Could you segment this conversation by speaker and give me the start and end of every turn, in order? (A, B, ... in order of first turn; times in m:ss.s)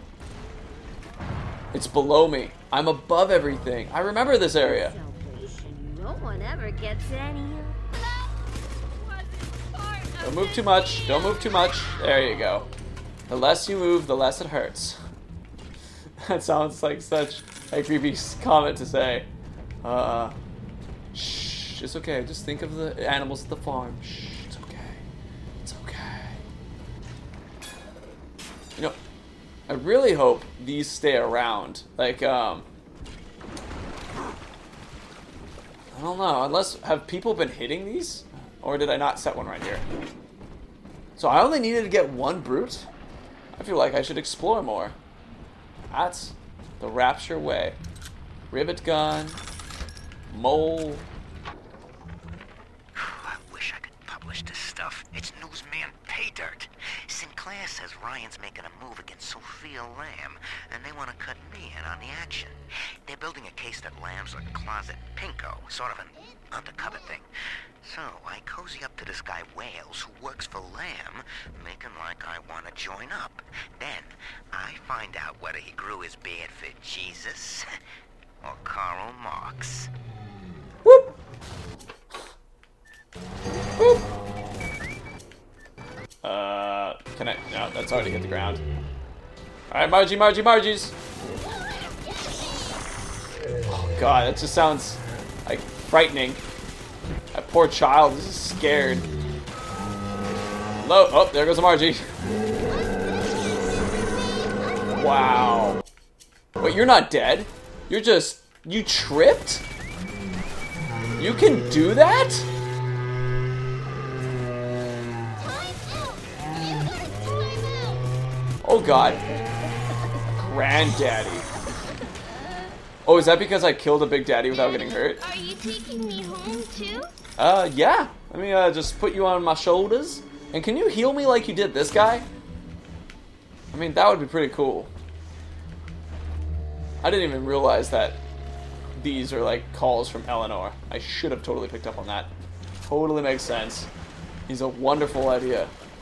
0:01.7-0:05.0 A
0:04.6-0:07.8 B
0:08.9-0:10.5 B
0:10.2-0:12.7 A
0:13.3-0:15.0 A
0:16.2-0:19.3 A
0:19.8-0:20.4 A
0:21.1-0:25.0 A
0:25.6-0:26.4 A
0:29.7-0:32.6 A
0:35.9-0:39.8 A
0:41.2-0:42.9 A
0:43.5-0:45.0 A
0:45.9-0:47.8 A
0:48.5-0:49.4 A
0:50.3-0:51.1 A
0:52.9-1:07.3 C
1:07.8-1:17.6 C
1:18.4-1:19.9 C
1:20.8-1:21.1 A
1:23.8-1:24.0 A
1:26.2-1:28.6 A
1:29.7-1:30.9 A
1:33.7-1:36.4 A
1:37.3-1:39.1 A
1:40.8-1:42.0 A
1:44.9-1:45.8 A
1:46.6-1:49.6 A
1:51.2-1:52.5 A
1:56.6-1:57.0 B
1:58.6-1:59.2 A
2:00.4-2:01.5 A
2:03.0-2:05.2 A
2:05.2-2:07.1 B
2:07.4-2:12.3 A
2:13.7-2:14.9 A
2:17.0-2:18.2 A
2:18.9-2:22.3 A
2:22.8-2:23.9 A
2:24.5-2:25.7 A